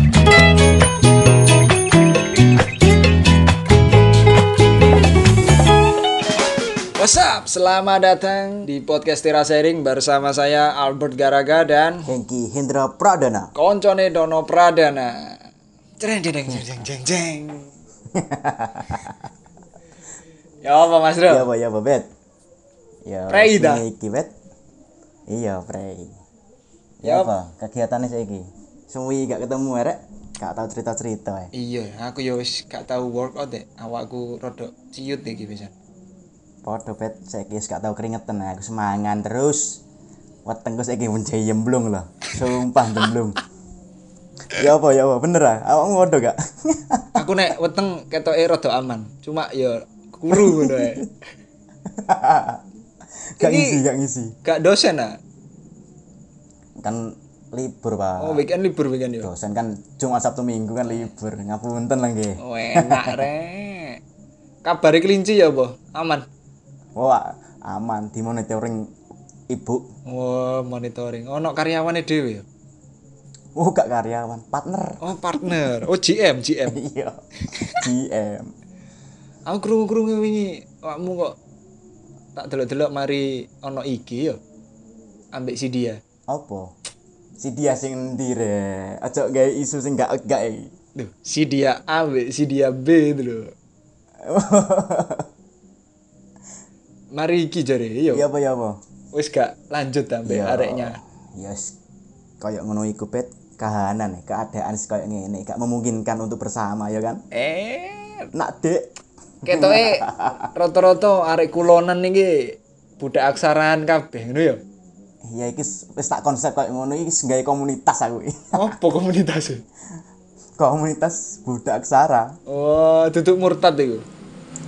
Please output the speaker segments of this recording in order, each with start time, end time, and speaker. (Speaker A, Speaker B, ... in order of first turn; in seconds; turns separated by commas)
Speaker A: 7.0-12.1, Speaker B: 12.1-13.5, Speaker A: 13.6-15.4, Speaker A: 16.0-17.7, Speaker B: 18.1-19.2, Speaker A: 20.6-21.5, Speaker B: 21.3-22.1, Speaker B: 23.1-24.3, Speaker A: 23.3-23.8, Speaker B: 25.3-26.2, Speaker B: 27.0-31.5, Speaker A: 27.1-27.3, Speaker A: 31.5-35.7, Speaker B: 36.6-39.8, Speaker B: 40.5-43.4, Speaker B: 44.5-47.2, Speaker A: 47.1-51.1, Speaker B: 50.3-51.1, Speaker B: 51.9-52.6, Speaker B: 53.4-54.4, Speaker A: 53.4-53.8, Speaker A: 54.5-55.2, Speaker B: 56.8-58.5, Speaker A: 58.2-59.3, Speaker B: 59.2-63.3, Speaker A: 62.4-64.0, Speaker A: 64.6-66.3, Speaker B: 67.0-68.9, Speaker B: 69.5-69.9, Speaker A: 70.1-72.5, Speaker B: 73.6-75.4, Speaker A: 75.0-76.8, Speaker B: 76.7-78.5, Speaker A: 77.5-77.9, Speaker A: 79.5-81.4, Speaker A: 82.4-84.4, Speaker A: 85.3-86.0, Speaker B: 86.3-86.7, Speaker B: 87.4-90.7, Speaker A: 91.0-93.5, Speaker B: 94.2-95.3, Speaker A: 97.1-98.3, Speaker B: 98.1-98.8, Speaker A: 99.1-101.0, Speaker B: 100.2-101.8, Speaker B: 102.4-107.2, Speaker A: 107.3-108.3, Speaker B: 108.3-108.8, Speaker B: 109.4-110.4, Speaker A: 109.4-114.6, Speaker B: 115.3-118.8, Speaker A: 118.6-119.6, Speaker B: 120.6-122.4, Speaker A: 122.5-124.0